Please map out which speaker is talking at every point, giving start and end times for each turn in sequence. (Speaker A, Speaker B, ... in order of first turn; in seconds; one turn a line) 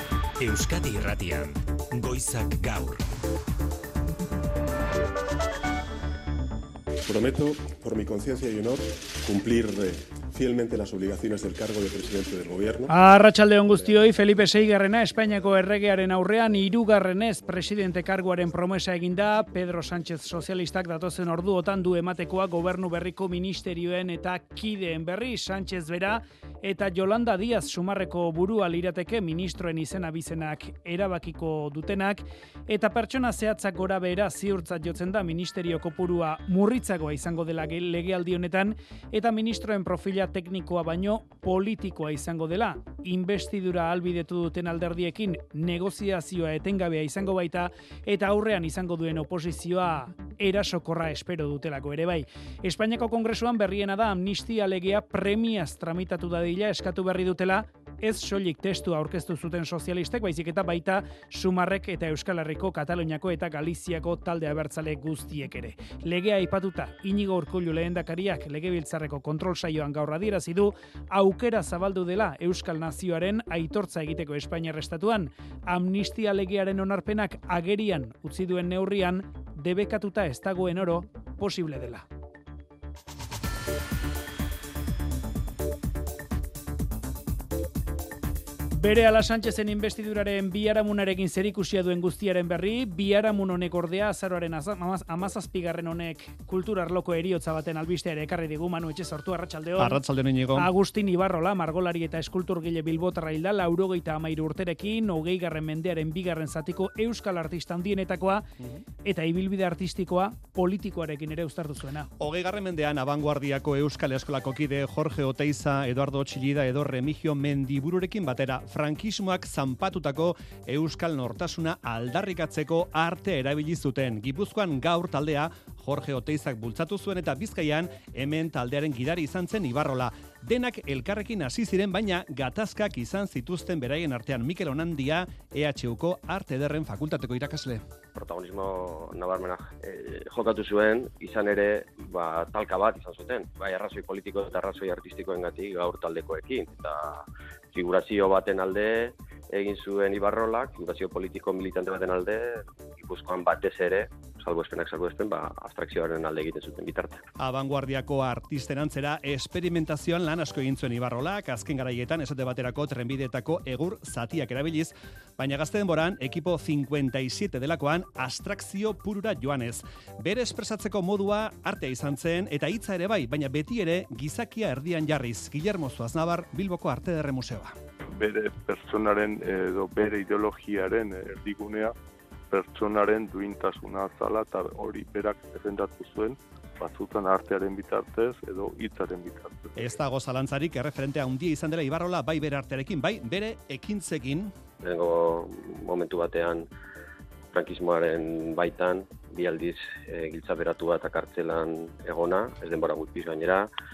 Speaker A: 0.4-3.0
Speaker B: 7.0-12.9
Speaker C: 12.9-82.0
Speaker C: 88.7-100.0
Speaker D: 99.8-100.7
Speaker C: 100.5-108.5
Speaker C: 109.0-112.1
Speaker D: 112.2-137.8
Speaker E: 138.1-157.2
Speaker D: 157.4-177.7
Speaker F: 178.2-181.9
Speaker F: 182.5-189.9
Speaker D: 189.8-194.5
Speaker E: 194.8-196.7
Speaker E: 197.5-203.7